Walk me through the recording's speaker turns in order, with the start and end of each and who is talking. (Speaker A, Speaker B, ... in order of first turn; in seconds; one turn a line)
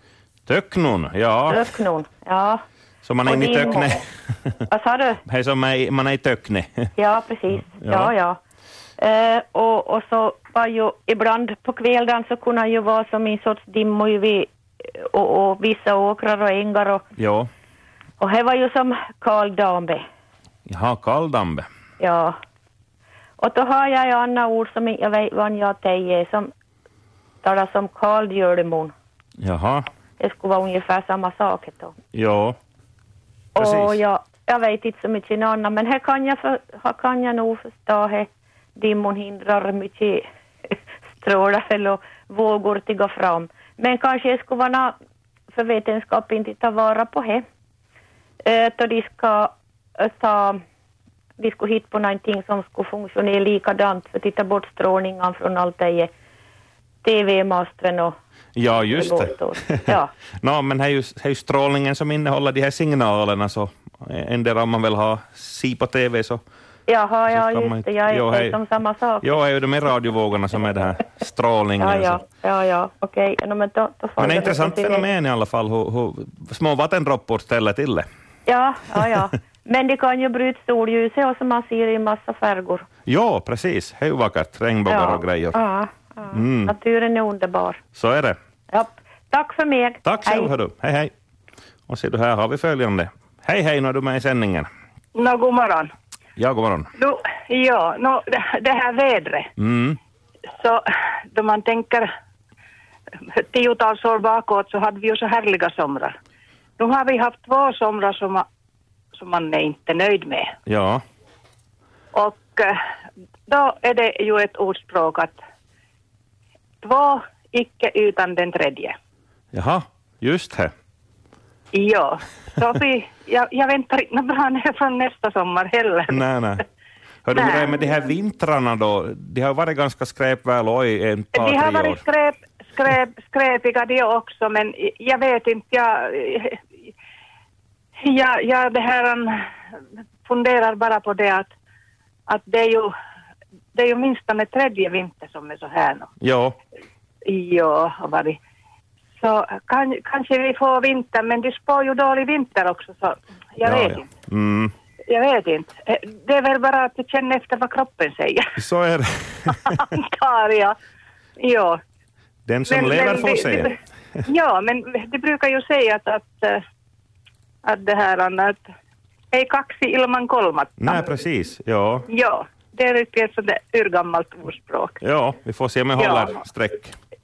Speaker A: 0.5-1.6
Speaker B: 1.5-2.6
Speaker A: 3.0-4.0
Speaker B: 3.2-4.0
Speaker B: 4.7-5.2
Speaker A: 5.3-6.9
Speaker B: 7.0-8.4
Speaker A: 7.8-8.1
Speaker B: 9.0-17.0
Speaker A: 17.2-17.5
Speaker B: 18.2-20.1
Speaker A: 20.7-21.7
Speaker B: 22.0-22.4
Speaker B: 23.4-26.5
Speaker B: 27.4-28.9
Speaker A: 29.4-29.9
Speaker B: 30.2-31.9
Speaker A: 32.1-32.6
Speaker B: 33.5-45.0
Speaker A: 33.6-34.0
Speaker B: 45.5-47.4
Speaker B: 48.4-50.6
Speaker B: 51.4-56.1
Speaker B: 57.0-58.1
Speaker A: 58.6-66.4
Speaker B: 58.9-60.1
Speaker B: 66.9-69.4
Speaker A: 67.3-68.6
Speaker A: 69.2-72.2
Speaker B: 71.8-75.0
Speaker A: 74.2-78.1
Speaker B: 78.5-82.9
Speaker A: 83.1-85.6
Speaker B: 84.9-87.8
Speaker A: 86.3-86.7
Speaker A: 88.0-88.4
Speaker B: 88.7-90.5
Speaker A: 90.0-91.1
Speaker A: 91.9-94.7
Speaker C: 95.2-95.9
Speaker A: 96.4-96.9
Speaker C: 97.0-99.5
Speaker A: 99.6-100.0
Speaker C: 100.6-102.1
Speaker C: 103.3-106.2
Speaker C: 106.8-108.5
Speaker C: 109.2-110.5
Speaker A: 110.7-111.0
Speaker C: 112.1-112.8
Speaker C: 113.5-115.4
Speaker C: 116.8-119.0
Speaker A: 119.5-120.7
Speaker C: 121.7-126.2
Speaker A: 126.1-126.6
Speaker A: 127.3-132.0
Speaker C: 127.3-127.9
Speaker C: 131.3-136.6
Speaker C: 138.0-139.3
Speaker C: 140.2-141.5
Speaker C: 142.3-142.9
Speaker C: 143.7-146.1
Speaker A: 146.2-146.6
Speaker C: 147.2-148.4
Speaker C: 149.2-154.1
Speaker A: 153.6-154.7
Speaker C: 155.1-158.5
Speaker A: 158.6-159.8
Speaker C: 159.7-160.8
Speaker C: 161.4-161.8
Speaker A: 162.5-163.7
Speaker C: 162.7-166.6
Speaker C: 167.6-168.6
Speaker C: 169.3-171.1
Speaker A: 170.8-172.1
Speaker C: 172.1-175.0
Speaker A: 175.0-177.0
Speaker C: 176.0-176.3